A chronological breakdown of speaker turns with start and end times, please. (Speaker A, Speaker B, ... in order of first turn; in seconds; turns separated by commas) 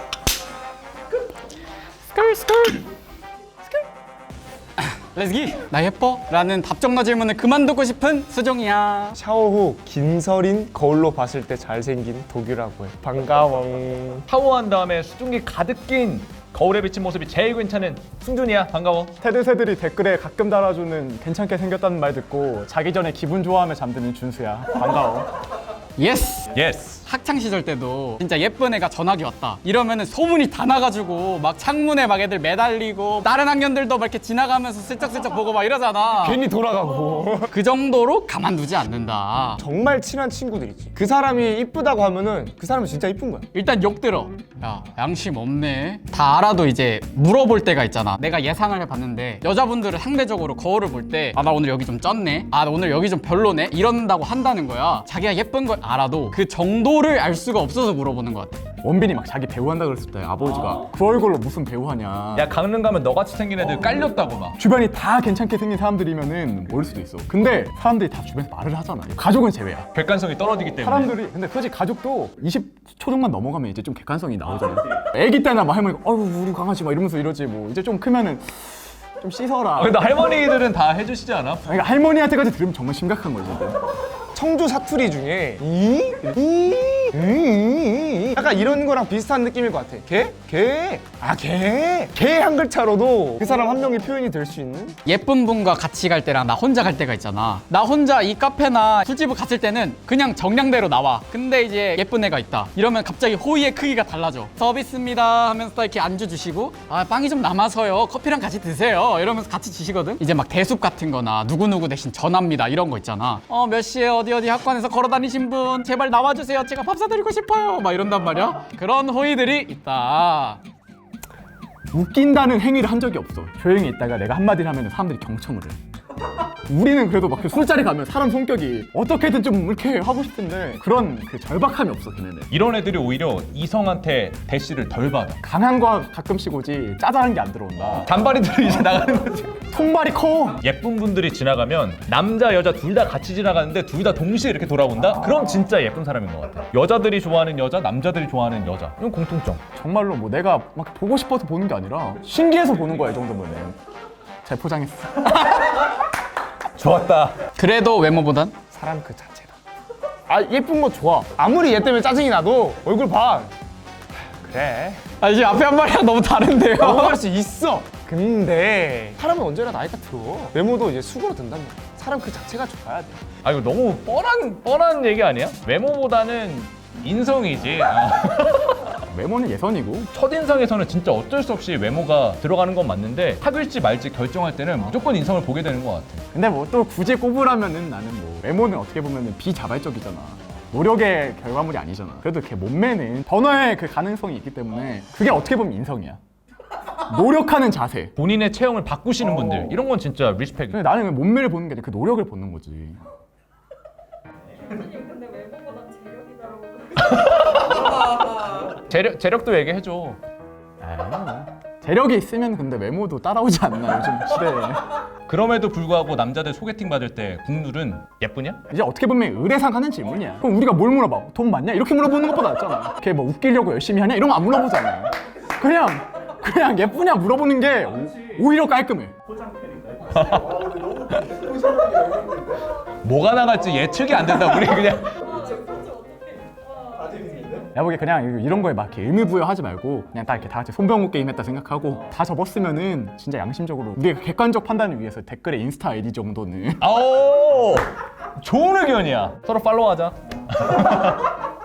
Speaker A: 2.1-2.8, Speaker A: 4.8-9.2, Speaker B: 9.2-14.2, Speaker C: 14.3-19.1, Speaker D: 19.2-25.3, Speaker A: 26.0-26.5, Speaker C: 26.5-27.0, Speaker A: 27.0-36.4, Speaker B: 36.2-37.5, Speaker A: 37.5-39.6, Speaker B: 39.6-43.5, Speaker A: 43.5-58.6, Speaker D: 58.8-62.5, Speaker C: 62.3-64.6, Speaker D: 64.6-69.9, Speaker C: 69.9-71.1, Speaker D: 70.7-80.0, Speaker C: 79.8-81.6, Speaker D: 81.6-83.8, Speaker B: 84.3-95.0, Speaker A: 95.0-120.6, Speaker D: 121.9-125.8, Speaker D: 126.6-132.5, Speaker C: 132.5-135.4, Speaker D: 135.4-138.1, Speaker C: 137.9-139.6, Speaker D: 139.5-140.6, Speaker C: 140.6-149.6, Speaker D: 149.7-153.8, Speaker D: 154.4-155.8, Speaker C: 156.8-157.4, Speaker A: 157.5-158.5, Speaker B: 158.7-159.5, Speaker B: 160.3-163.5, Speaker B: 164.2-165.0, Speaker A: 165.2-167.2, Speaker B: 166.8-173.2, Speaker C: 173.4-179.0, Speaker D: 179.1-180.1, Speaker C: 180.1-186.2, Speaker D: 186.3-196.2, Speaker D: 196.9-198.1, Speaker C: 198.2-200.8, Speaker D: 200.7-203.0, Speaker E: 204.7-206.9, Speaker C: 207.0-210.2, Speaker D: 210.8-215.0, Speaker C: 215.2-218.6, Speaker D: 218.7-229.1, Speaker C: 229.9-232.3, Speaker C: 233.0-235.6, Speaker E: 235.5-237.2, Speaker D: 237.5-246.8, Speaker C: 246.8-251.4